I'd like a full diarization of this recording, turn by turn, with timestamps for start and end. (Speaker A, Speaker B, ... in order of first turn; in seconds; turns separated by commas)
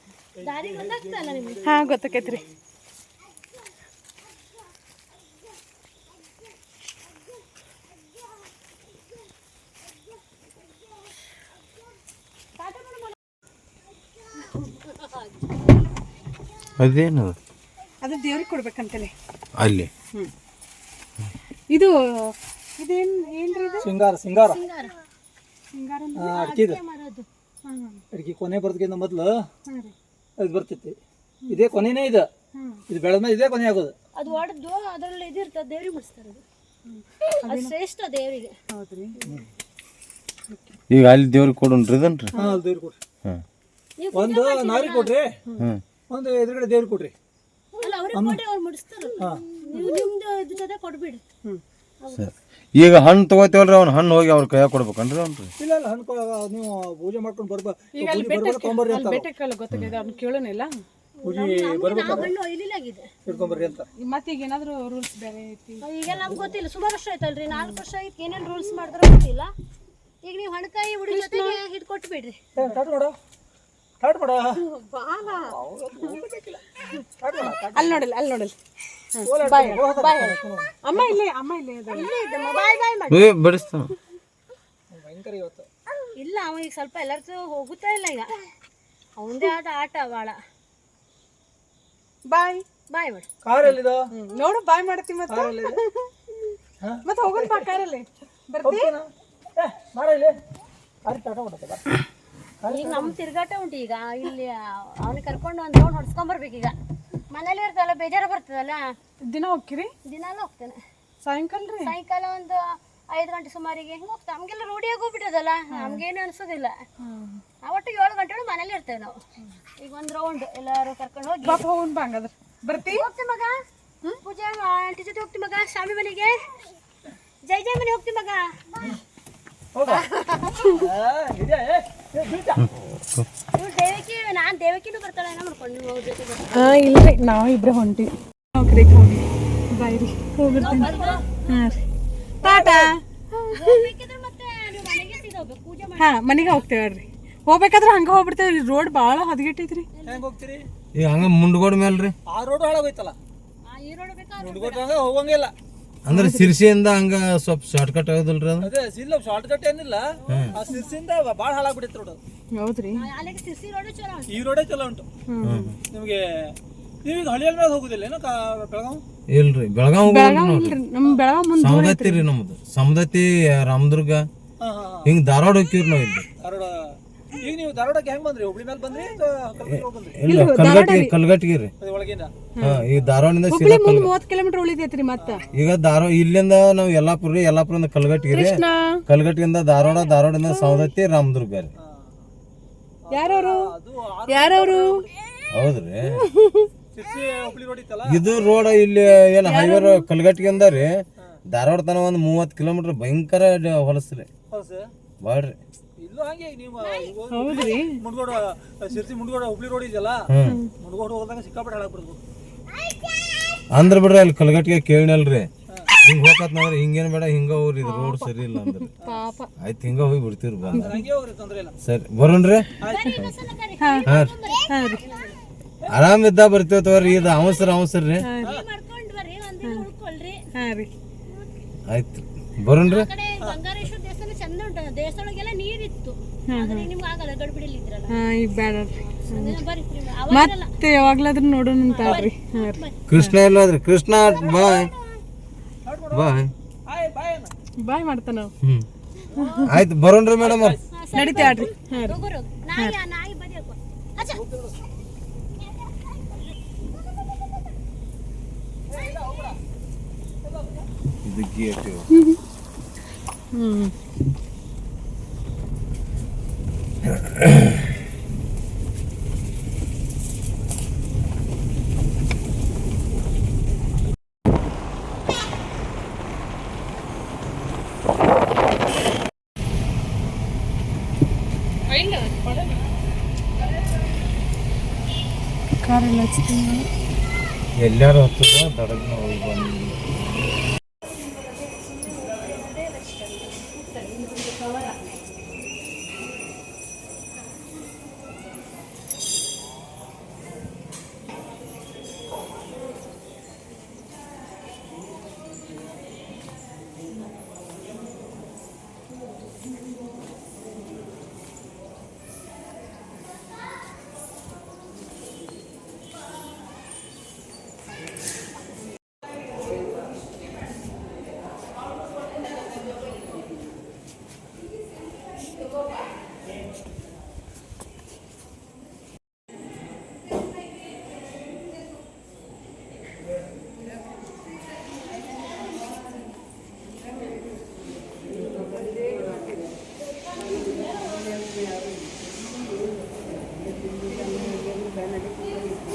Speaker A: 0.3-2.5, Speaker B: 0.4-1.6, Speaker C: 1.6-2.4, Speaker B: 12.6-13.1, Speaker B: 14.4-15.2, Speaker D: 16.8-17.4, Speaker C: 18.0-19.1, Speaker D: 19.6-19.9, Speaker C: 21.7-23.9, Speaker A: 23.8-24.6, Speaker B: 24.4-24.9, Speaker C: 25.7-26.4, Speaker A: 26.1-26.8, Speaker B: 26.3-27.3, Speaker C: 27.6-28.0, Speaker A: 28.1-29.4, Speaker C: 29.6-29.9, Speaker A: 30.4-31.0, Speaker A: 31.5-32.3, Speaker C: 32.5-32.8, Speaker A: 32.9-33.9, Speaker B: 34.1-36.4, Speaker C: 36.9-37.7, Speaker B: 37.4-38.5, Speaker C: 38.7-39.2, Speaker C: 40.5-40.8, Speaker D: 40.9-42.3, Speaker C: 42.3-42.6, Speaker A: 42.4-43.0, Speaker B: 44.0-45.1, Speaker A: 44.1-45.4, Speaker A: 46.1-47.1, Speaker B: 47.8-51.2, Speaker A: 48.1-48.4, Speaker A: 49.2-49.4, Speaker C: 49.7-50.0, Speaker B: 52.0-52.3, Speaker D: 52.1-55.5, Speaker A: 55.6-59.3, Speaker C: 57.9-60.8, Speaker B: 61.2-63.1, Speaker A: 61.2-62.3, Speaker A: 63.2-63.9, Speaker C: 63.3-65.8, Speaker B: 65.8-69.5, Speaker A: 66.1-66.5, Speaker B: 70.2-72.4, Speaker C: 71.1-71.6, Speaker A: 72.5-73.1, Speaker A: 74.0-74.6, Speaker C: 74.6-76.1, Speaker A: 75.3-78.0, Speaker C: 76.9-78.5, Speaker C: 79.1-82.1, Speaker A: 79.2-80.7, Speaker B: 81.9-83.3, Speaker D: 83.1-83.9, Speaker A: 84.9-85.7, Speaker B: 86.1-88.3, Speaker B: 89.2-90.4, Speaker C: 92.2-92.6, Speaker B: 92.9-93.3, Speaker A: 93.4-94.0, Speaker C: 94.1-96.1, Speaker A: 95.3-95.8, Speaker A: 96.8-97.6, Speaker C: 97.0-98.9, Speaker A: 98.6-100.4, Speaker A: 101.0-101.8, Speaker A: 102.6-103.1, Speaker B: 102.7-106.7, Speaker B: 107.3-108.9, Speaker C: 109.2-109.9, Speaker B: 110.0-110.8, Speaker C: 111.2-111.9, Speaker B: 111.8-116.8, Speaker C: 115.7-116.0, Speaker C: 117.0-117.4, Speaker B: 117.6-119.2, Speaker B: 119.8-121.6, Speaker C: 121.4-123.1, Speaker B: 122.8-123.6, Speaker B: 124.2-126.4, Speaker B: 127.4-128.8, Speaker A: 129.7-130.1, Speaker B: 129.9-130.7, Speaker A: 130.7-132.6, Speaker D: 132.6-133.3, Speaker B: 133.5-136.7, Speaker C: 136.5-141.8, Speaker B: 140.5-141.8, Speaker C: 142.4-143.9, Speaker A: 142.4-142.9, Speaker B: 143.5-146.5, Speaker C: 146.0-149.9, Speaker B: 149.9-150.2, Speaker A: 150.1-150.6, Speaker D: 150.9-152.1, Speaker A: 152.3-153.2, Speaker B: 153.7-154.9, Speaker A: 154.4-155.5, Speaker D: 156.1-158.7, Speaker C: 156.1-156.5, Speaker A: 158.6-162.2, Speaker D: 160.3-160.5, Speaker C: 160.7-160.9, Speaker C: 162.5-163.0, Speaker B: 162.9-164.5, Speaker A: 164.3-165.1, Speaker C: 165.3-165.7, Speaker D: 165.4-165.7, Speaker A: 165.9-169.0, Speaker D: 169.3-170.8, Speaker C: 170.0-172.2, Speaker D: 171.6-174.3, Speaker A: 174.6-175.1, Speaker D: 175.0-176.3, Speaker A: 176.4-180.2, Speaker D: 179.7-181.7, Speaker C: 180.2-181.1, Speaker A: 181.8-182.3, Speaker C: 182.6-182.8, Speaker D: 182.6-184.1, Speaker C: 183.5-185.4, Speaker A: 185.2-185.4, Speaker D: 185.5-191.7, Speaker C: 188.3-189.0, Speaker C: 190.5-190.9, Speaker A: 191.8-192.2, Speaker A: 193.1-195.1, Speaker C: 193.1-193.7, Speaker C: 194.3-195.0, Speaker D: 195.5-196.3, Speaker C: 196.1-196.7, Speaker A: 196.9-198.3, Speaker D: 198.1-204.3, Speaker C: 199.4-200.0, Speaker A: 204.5-204.9, Speaker D: 205.2-205.6, Speaker A: 206.0-212.2, Speaker C: 207.3-208.0, Speaker D: 210.3-210.6, Speaker C: 210.4-210.7, Speaker D: 213.7-215.5, Speaker D: 216.0-218.9, Speaker C: 217.8-219.5, Speaker D: 219.6-220.9, Speaker A: 220.7-221.7, Speaker C: 220.7-221.1, Speaker D: 221.8-223.3, Speaker A: 222.8-223.2, Speaker B: 222.8-225.4, Speaker C: 223.8-224.1, Speaker D: 224.1-224.3, Speaker C: 224.7-225.0, Speaker D: 225.9-228.2, Speaker B: 227.0-227.8, Speaker C: 228.2-228.6, Speaker B: 228.4-230.4, Speaker C: 230.5-230.9, Speaker D: 231.9-233.1, Speaker B: 232.8-238.2, Speaker C: 236.5-236.9, Speaker C: 238.1-239.6, Speaker B: 239.0-240.7, Speaker C: 240.3-243.3, Speaker B: 241.9-243.0, Speaker D: 243.1-244.9, Speaker B: 244.2-245.2, Speaker A: 245.8-246.3, Speaker D: 246.1-246.5, Speaker A: 246.9-247.5, Speaker C: 247.8-248.5, Speaker D: 248.6-248.9, Speaker C: 249.3-249.7, Speaker D: 249.7-250.8, Speaker A: 250.4-250.8, Speaker B: 250.9-254.4, Speaker C: 251.1-252.2, Speaker A: 254.3-254.8, Speaker A: 258.9-259.6, Speaker B: 258.9-259.5, Speaker A: 260.4-260.9, Speaker D: 261.2-262.1, Speaker C: 262.1-262.4, Speaker C: 263.5-263.9, Speaker D: 267.1-267.8, Speaker C: 285.8-286.9, Speaker D: 287.8-290.0, Speaker B: 293.9-295.0, Speaker B: 340.4-340.8